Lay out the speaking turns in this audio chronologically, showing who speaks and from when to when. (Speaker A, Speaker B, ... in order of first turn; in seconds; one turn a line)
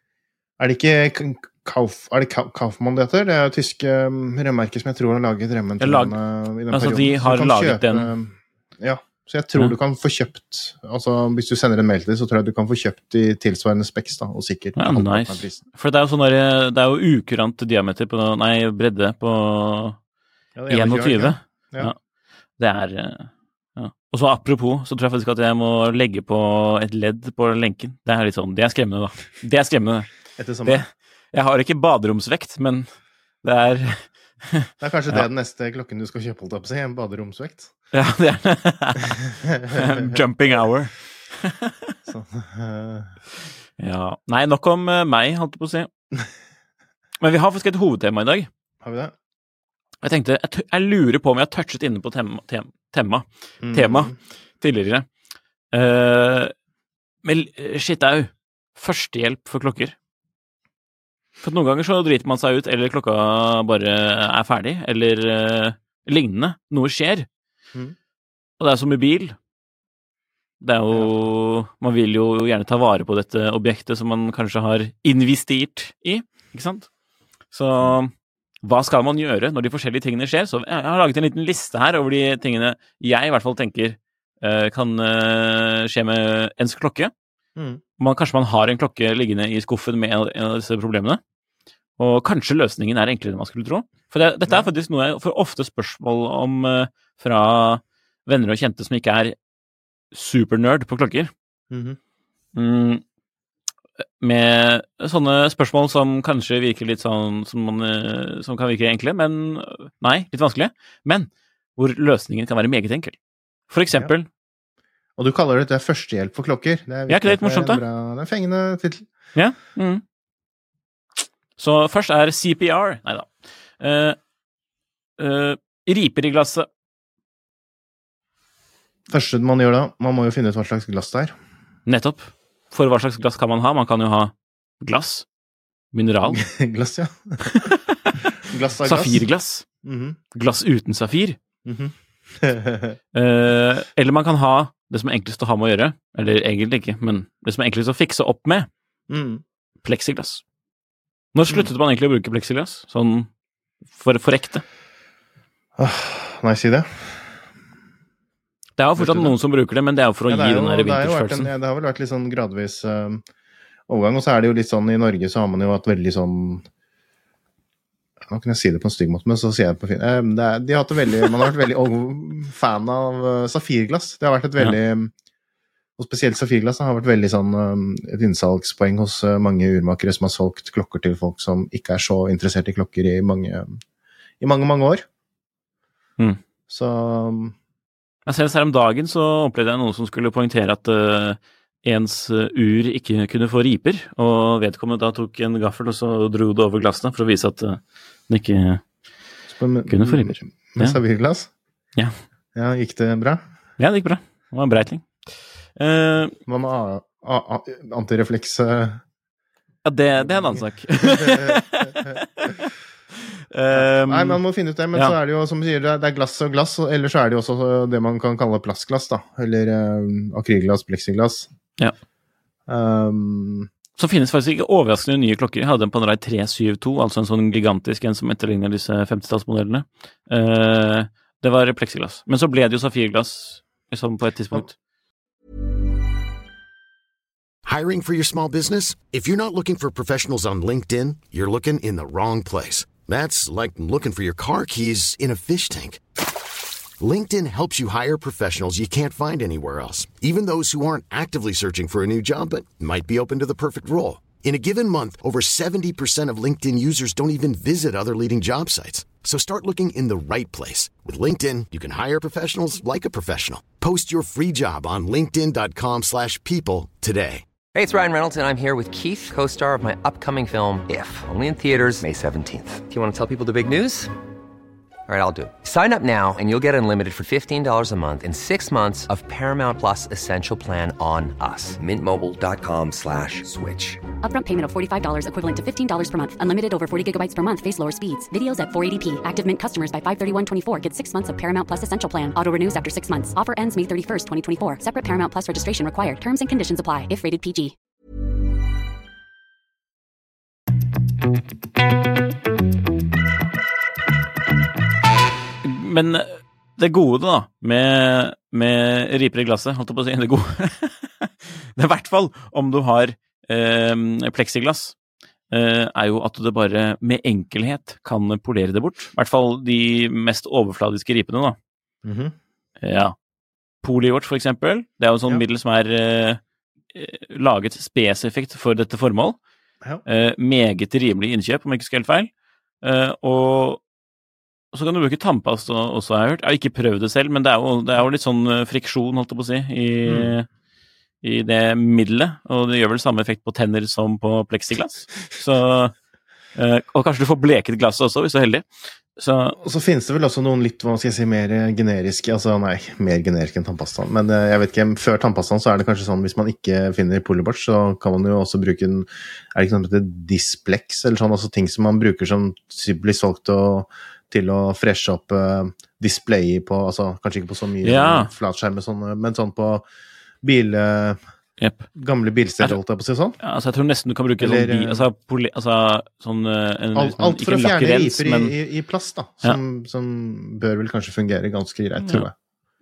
Speaker A: 0.6-15.6
Speaker B: 5.8-6.1
Speaker B: 6.7-8.1
Speaker B: 14.8-20.0
Speaker A: 20.6-21.9
Speaker B: 20.7-21.9
Speaker B: 22.6-30.1
Speaker A: 30.4-30.8
Speaker B: 30.6-32.9
Speaker B: 33.4-35.3
Speaker A: 34.8-37.7
Speaker B: 37.9-41.9
Speaker A: 39.4-40.2
Speaker A: 42.0-43.1
Speaker B: 43.8-45.9
Speaker B: 47.2-48.5
Speaker A: 48.8-49.1
Speaker B: 50.0-55.0
Speaker A: 53.6-54.1
Speaker B: 55.7-56.5
Speaker B: 57.2-59.9
Speaker B: 61.4-67.3
Speaker B: 68.6-69.3
Speaker B: 70.6-76.9
Speaker B: 77.5-78.1
Speaker B: 78.6-87.1
Speaker A: 87.5-87.8
Speaker B: 88.0-91.2
Speaker B: 92.0-99.3
Speaker B: 100.1-101.3
Speaker A: 101.7-102.0
Speaker B: 102.5-103.0
Speaker B: 104.2-113.2
Speaker B: 113.7-114.3
Speaker A: 115.2-119.1
Speaker B: 117.1-117.8
Speaker B: 119.3-120.0
Speaker B: 121.6-124.2
Speaker B: 125.2-126.7
Speaker A: 129.1-131.3
Speaker B: 131.8-135.2
Speaker B: 135.9-136.4
Speaker A: 136.2-137.7
Speaker B: 137.4-138.1
Speaker A: 138.4-139.2
Speaker B: 138.8-139.6
Speaker A: 139.8-140.2
Speaker B: 140.3-141.4
Speaker A: 141.6-143.0
Speaker B: 143.1-148.7
Speaker A: 149.1-149.4
Speaker B: 149.8-150.4
Speaker B: 151.3-153.3
Speaker B: 153.9-154.6
Speaker A: 155.8-157.3
Speaker B: 158.8-161.5
Speaker A: 159.0-159.3
Speaker A: 160.3-163.2
Speaker A: 163.9-166.6
Speaker A: 168.2-175.1
Speaker A: 176.0-183.8
Speaker A: 184.4-185.1
Speaker A: 186.7-187.5
Speaker B: 188.3-198.8
Speaker A: 199.5-201.5
Speaker B: 199.9-201.0
Speaker A: 202.5-203.4
Speaker B: 203.8-205.2
Speaker B: 205.8-206.3
Speaker A: 206.5-209.0
Speaker B: 209.8-212.7
Speaker A: 210.2-212.2
Speaker B: 213.5-214.4
Speaker A: 213.7-221.5
Speaker A: 222.7-223.7
Speaker B: 224.0-234.7
Speaker C: 237.6-246.0
Speaker C: 247.0-267.4
Speaker D: 267.7-274.1
Speaker D: 275.1-284.0
Speaker E: 284.2-297.7
Speaker B: 305.6-314.9
Speaker B: 315.5-321.6
Speaker A: 322.0-322.3
Speaker B: 322.8-323.1
Speaker B: 323.8-326.4
Speaker B: 326.9-329.4
Speaker B: 330.0-332.3
Speaker B: 332.8-333.8
Speaker B: 334.7-340.5
Speaker A: 340.0-340.3
Speaker B: 341.2-345.9
Speaker B: 346.6-349.6
Speaker A: 349.6-369.9
Speaker B: 367.8-368.3
Speaker A: 370.4-371.2
Speaker B: 371.6-371.9
Speaker A: 371.9-373.4
Speaker B: 373.4-378.5
Speaker A: 374.4-375.0
Speaker A: 376.9-382.3
Speaker B: 382.0-382.3